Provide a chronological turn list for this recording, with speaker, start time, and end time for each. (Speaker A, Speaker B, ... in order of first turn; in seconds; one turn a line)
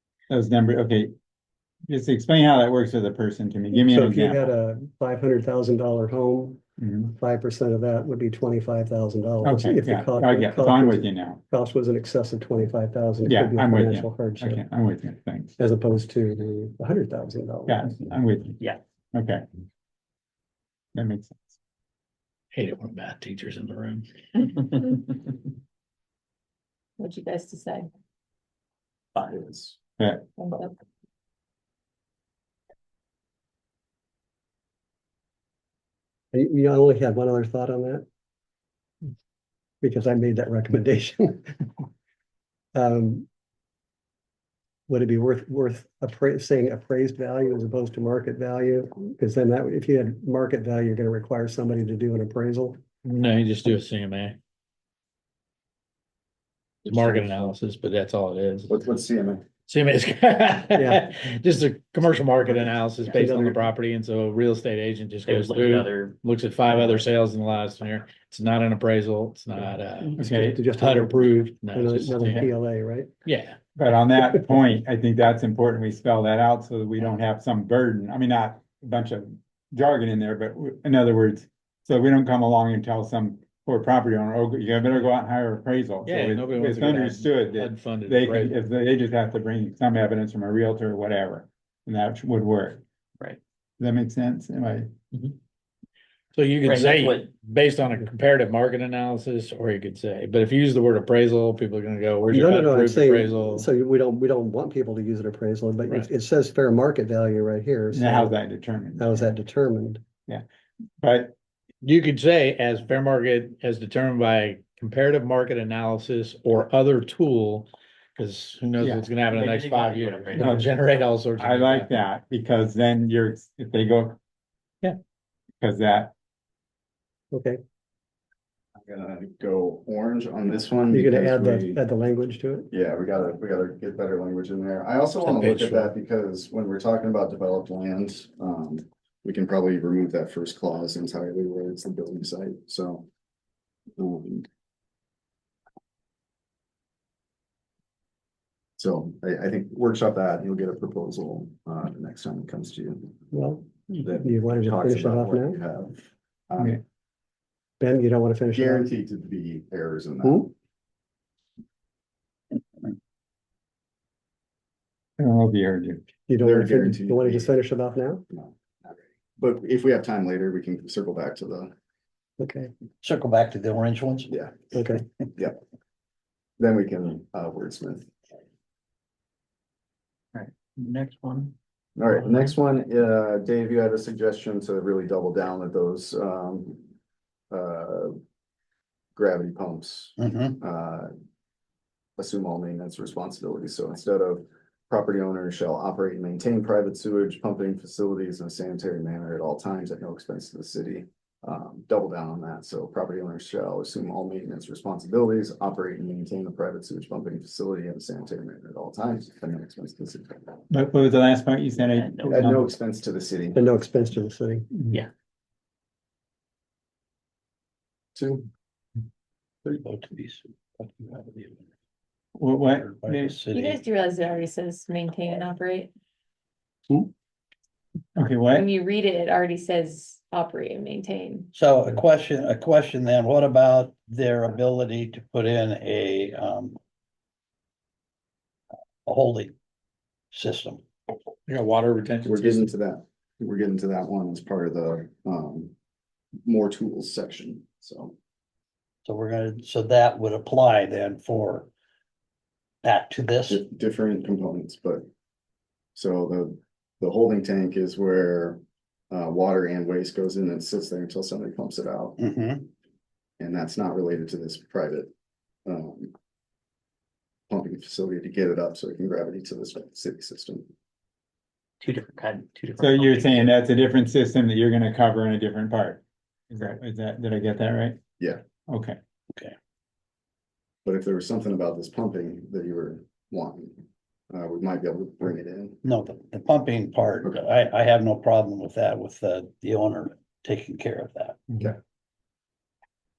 Speaker A: 0.3-1.1
Speaker A: 1.9-4.5
Speaker B: 3.7-6.6
Speaker A: 6.8-7.1
Speaker B: 7.2-14.6
Speaker A: 9.4-11.4
Speaker A: 13.2-15.5
Speaker B: 15.6-17.8
Speaker A: 17.7-18.6
Speaker A: 19.1-19.4
Speaker A: 20.9-21.6
Speaker C: 22.5-24.6
Speaker D: 27.0-27.9
Speaker E: 29.1-29.8
Speaker A: 30.0-30.2
Speaker D: 30.4-30.7
Speaker B: 36.3-38.0
Speaker B: 39.8-41.5
Speaker B: 42.8-43.3
Speaker B: 44.9-52.8
Speaker C: 53.0-54.4
Speaker C: 56.9-58.7
Speaker B: 56.9-57.5
Speaker E: 58.7-59.4
Speaker C: 59.7-72.5
Speaker B: 60.8-61.0
Speaker B: 62.5-63.6
Speaker F: 65.3-66.2
Speaker B: 70.2-73.1
Speaker A: 70.2-70.6
Speaker C: 73.3-73.6
Speaker A: 73.8-92.8
Speaker B: 74.2-74.5
Speaker C: 86.1-88.6
Speaker A: 93.8-94.9
Speaker C: 96.3-103.7
Speaker F: 96.6-97.3
Speaker B: 102.3-108.4
Speaker A: 107.9-109.2
Speaker B: 109.0-110.0
Speaker A: 111.0-111.3
Speaker C: 111.8-121.9
Speaker A: 118.8-119.1
Speaker F: 119.1-120.9
Speaker A: 120.3-120.7
Speaker A: 121.4-124.2
Speaker A: 125.6-126.1
Speaker B: 127.3-127.6
Speaker E: 128.9-131.8
Speaker B: 130.9-132.7
Speaker E: 132.7-143.1
Speaker C: 135.2-135.9
Speaker E: 144.0-144.5
Speaker E: 148.8-153.2
Speaker B: 153.3-155.6
Speaker E: 153.9-156.8
Speaker B: 157.8-158.9
Speaker E: 158.5-160.5
Speaker B: 160.2-160.5
Speaker A: 165.2-166.0
Speaker B: 166.3-168.2
Speaker E: 166.4-167.6
Speaker E: 168.3-171.7
Speaker B: 172.4-172.7
Speaker G: 173.0-174.3
Speaker E: 174.3-174.7
Speaker B: 174.7-175.0
Speaker E: 176.6-178.1
Speaker F: 180.3-181.5
Speaker E: 182.0-186.9
Speaker E: 187.5-188.2
Speaker E: 189.2-191.1
Speaker G: 190.2-190.5
Speaker E: 192.2-210.6
Speaker A: 210.7-212.7
Speaker F: 211.9-212.5
Speaker E: 212.2-213.6
Speaker B: 213.6-214.7
Speaker A: 214.7-215.0
Speaker E: 218.2-218.5
Speaker G: 219.7-221.7
Speaker A: 222.4-223.4
Speaker G: 222.8-223.8
Speaker D: 223.5-225.9
Speaker A: 228.2-228.7
Speaker D: 228.5-231.5
Speaker G: 231.5-236.8
Speaker G: 239.1-239.5
Speaker G: 240.3-240.8
Speaker C: 241.5-242.7
Speaker E: 242.2-245.8
Speaker E: 246.4-248.2
Speaker G: 249.1-251.7
Speaker G: 252.8-253.6
Speaker E: 253.5-255.1
Speaker E: 255.9-262.2
Speaker G: 262.2-262.7
Speaker E: 263.4-265.1
Speaker E: 265.7-266.1
Speaker E: 267.5-270.7
Speaker F: 271.8-273.5
Speaker A: 272.8-278.0
Speaker A: 278.7-279.0
Speaker E: 280.9-285.8
Speaker G: 285.8-291.4